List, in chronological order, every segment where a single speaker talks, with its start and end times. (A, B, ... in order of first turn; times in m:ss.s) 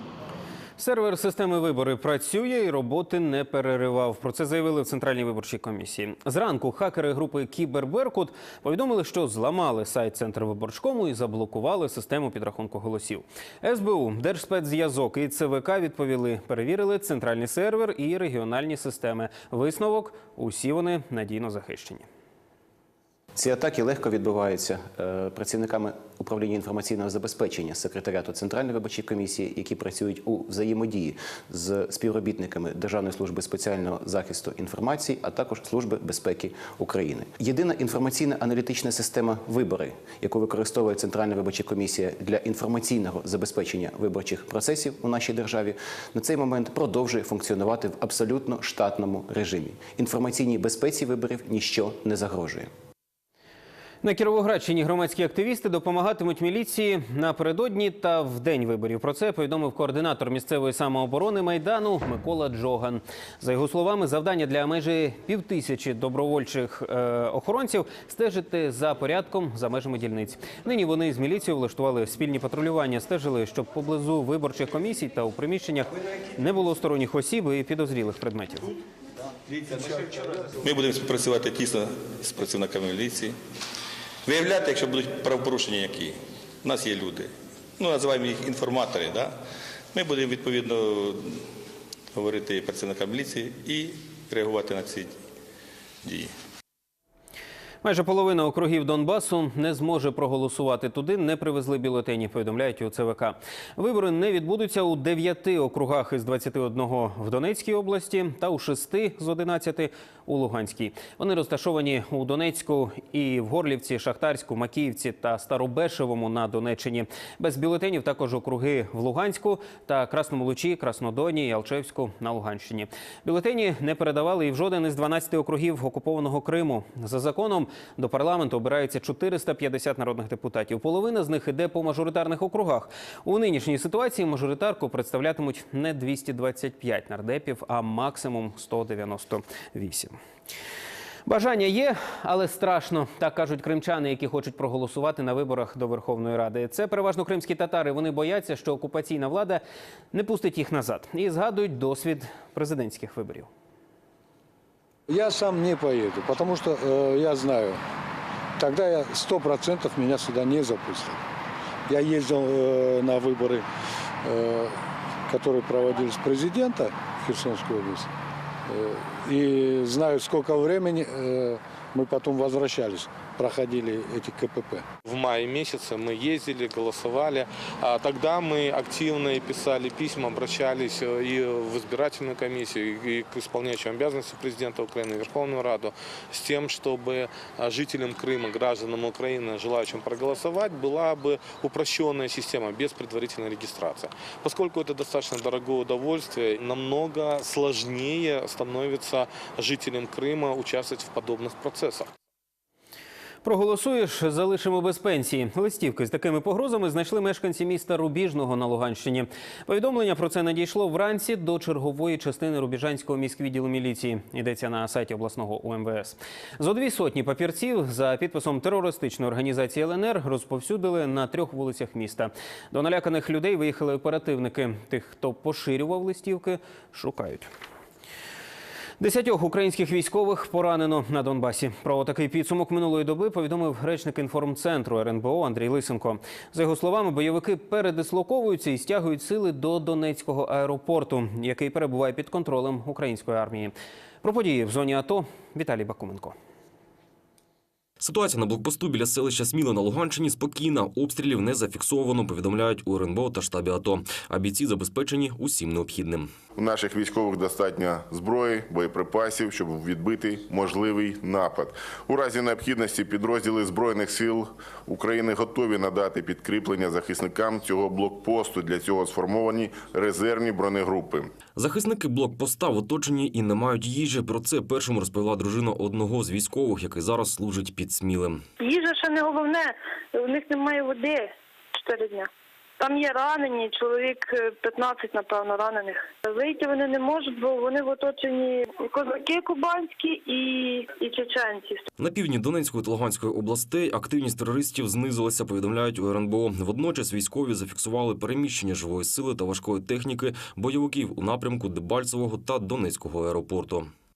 0:00.8-0:22.1 A
0:23.4-0:52.7 B
0:54.0-1:18.7 A
1:20.6-1:23.4 C
1:24.3-1:29.4 C
1:29.9-1:31.5 C
1:32.1-1:35.2 C
1:36.0-1:36.3 C
1:37.8-2:20.2 A
2:21.3-2:33.5 A
2:35.1-2:37.8 D
2:38.6-2:41.2 D
2:41.9-2:43.6 D
2:44.2-2:44.8 D
2:45.3-2:48.1 D
2:48.7-2:54.8 D
2:55.1-3:22.1 E
3:23.4-3:47.5 A
3:49.0-4:06.4 A
4:08.0-4:16.3 F
4:16.6-4:31.3 G
4:31.6-4:38.4 F
4:38.6-4:42.3 H
4:42.8-4:51.8 H
4:52.0-5:03.9 F